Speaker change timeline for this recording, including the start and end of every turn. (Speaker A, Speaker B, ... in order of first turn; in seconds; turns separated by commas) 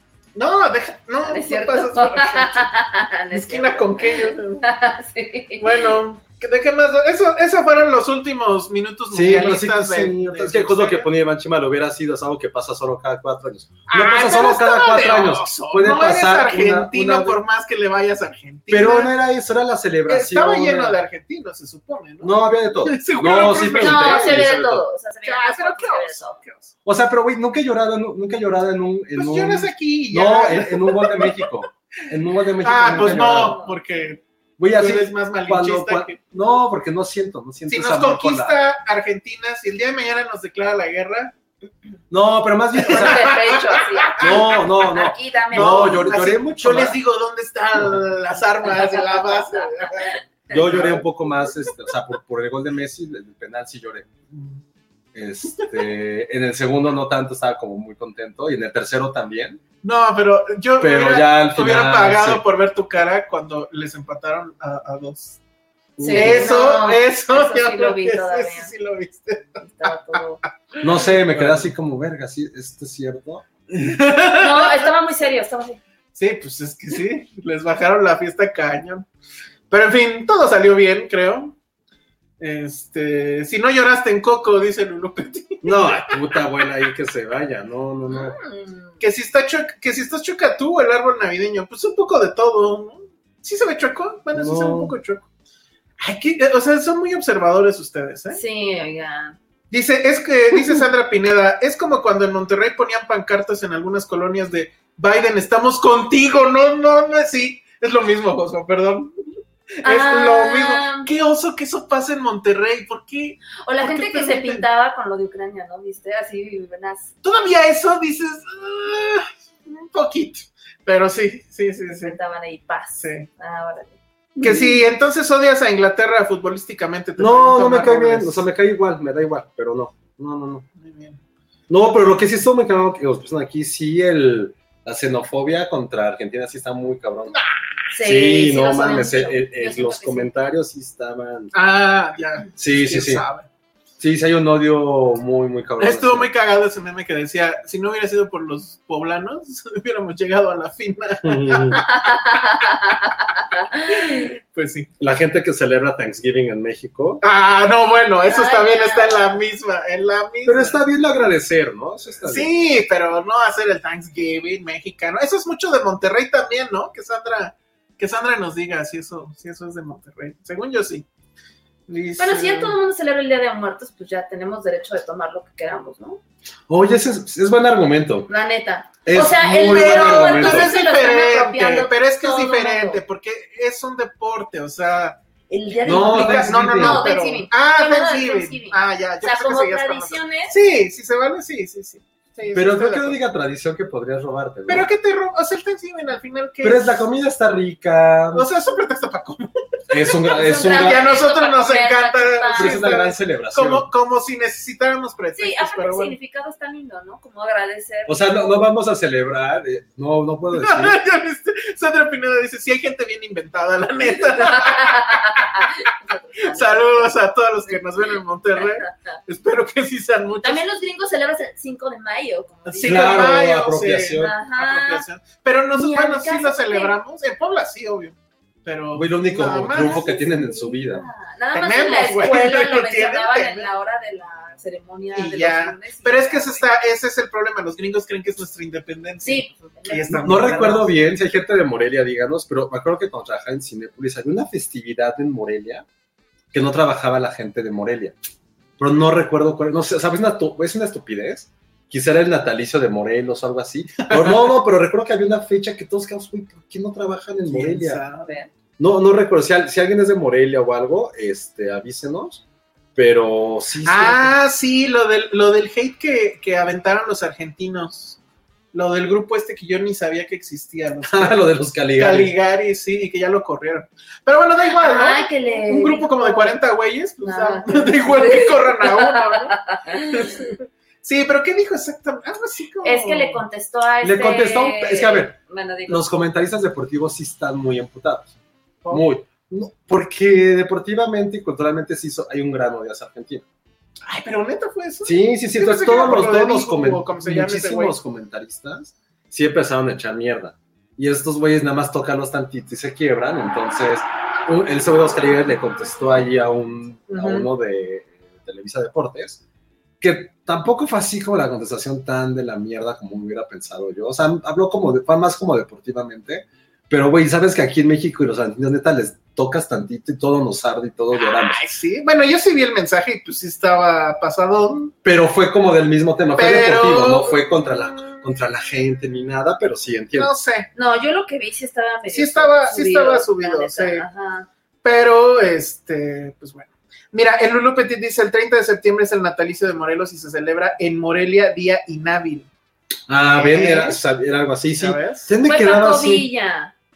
Speaker A: 0.3-2.7, Speaker B: 1.2-6.0, Speaker A: 3.3-4.7, Speaker A: 5.6-11.1, Speaker C: 9.1-17.4, Speaker A: 13.9-19.1, Speaker C: 18.7-21.0, Speaker A: 20.1-24.5, Speaker C: 22.2-24.8, Speaker B: 23.4-26.4, Speaker A: 25.2-26.7, Speaker C: 26.8-33.6, Speaker A: 29.2-31.4, Speaker A: 32.6-34.2, Speaker B: 32.9-33.8, Speaker C: 34.6-38.6, Speaker A: 34.7-36.2, Speaker A: 37.7-41.4, Speaker C: 42.1-43.4, Speaker A: 42.9-44.7, Speaker B: 42.9-46.1, Speaker C: 44.2-47.0, Speaker A: 45.5-51.0, Speaker B: 48.8-50.8, Speaker C: 50.5-54.1, Speaker A: 54.3-54.6, Speaker C: 55.1-59.6, Speaker A: 59.8-65.4, Speaker C: 60.8-62.4, Speaker C: 66.0-66.5, Speaker B: 66.0-68.7, Speaker A: 66.1-70.2, Speaker B: 69.6-70.4, Speaker A: 70.7-71.7, Speaker C: 70.8-73.4, Speaker A: 73.7-74.8, Speaker B: 74.4-75.8, Speaker A: 76.1-79.0, Speaker A: 79.7-81.5, Speaker A: 82.4-86.4, Speaker C: 85.6-88.4, Speaker B: 88.1-89.0, Speaker A: 89.0-95.2, Speaker C: 94.3-95.0, Speaker A: 96.0-98.4, Speaker B: 98.3-99.3, Speaker A: 99.7-109.1, Speaker A: 109.8-114.6, Speaker B: 109.8-111.1, Speaker B: 113.6-117.1, Speaker A: 117.2-122.2, Speaker B: 121.9-124.7, Speaker A: 123.0-123.3, Speaker A: 124.4-128.4, Speaker C: 127.2-130.7, Speaker A: 130.8-131.2, Speaker C: 131.7-137.4, Speaker B: 137.9-140.3, Speaker C: 138.0-141.5, Speaker A: 141.5-143.5, Speaker C: 142.6-143.2, Speaker C: 144.0-146.3, Speaker A: 145.8-152.2, Speaker C: 151.2-151.8, Speaker B: 151.8-154.2, Speaker A: 153.9-154.9, Speaker C: 155.0-157.2, Speaker A: 157.2-160.8, Speaker B: 158.3-159.3, Speaker C: 160.4-162.5, Speaker A: 162.2-171.1, Speaker A: 171.9-172.7, Speaker B: 172.2-176.2, Speaker C: 176.7-178.3, Speaker B: 178.3-183.0, Speaker C: 179.0-180.7, Speaker A: 179.6-185.2, Speaker B: 185.5-190.5, Speaker A: 185.8-193.2, Speaker C: 185.8-187.1, Speaker C: 192.5-194.9, Speaker A: 194.7-197.0, Speaker C: 196.6-198.5, Speaker A: 198.3-206.1, Speaker C: 199.9-201.1, Speaker B: 200.3-202.9, Speaker C: 202.6-203.9, Speaker B: 205.3-208.4, Speaker C: 208.1-211.0, Speaker A: 210.5-215.7, Speaker B: 214.3-217.2, Speaker A: 216.5-220.6, Speaker B: 218.6-219.1, Speaker B: 220.4-223.4, Speaker A: 222.7-230.2, Speaker C: 222.8-224.3, Speaker B: 224.2-225.0, Speaker B: 225.7-227.0, Speaker C: 228.9-231.1, Speaker B: 229.7-236.7, Speaker A: 231.5-233.7, Speaker A: 235.1-240.9, Speaker B: 239.2-240.8, Speaker C: 240.1-245.8, Speaker C: 246.5-248.1, Speaker C: 248.8-258.0, Speaker A: 254.1-254.4, Speaker A: 257.4-258.3, Speaker B: 258.2-258.5, Speaker C: 258.8-262.4, Speaker C: 262.9-264.4, Speaker A: 263.9-268.2, Speaker A: 268.7-271.4, Speaker C: 271.1-272.3, Speaker A: 271.9-283.4, Speaker B: 274.8-276.6, Speaker B: 277.2-280.4, Speaker B: 282.8-286.1, Speaker C: 284.0-285.4, Speaker C: 285.9-288.3, Speaker C: 288.9-293.4, Speaker A: 294.1-297.9, Speaker C: 295.0-309.4, Speaker A: 307.1-307.4, Speaker C: 310.0-321.6, Speaker A: 321.1-324.9, Speaker C: 325.0-330.3, Speaker A: 326.4-328.2, Speaker A: 330.2-330.7, Speaker B: 330.7-334.5, Speaker A: 332.1-334.1, Speaker A: 334.8-342.5, Speaker C: 343.1-346.3, Speaker A: 343.3-344.0, Speaker A: 344.7-345.3, Speaker B: 345.4-346.7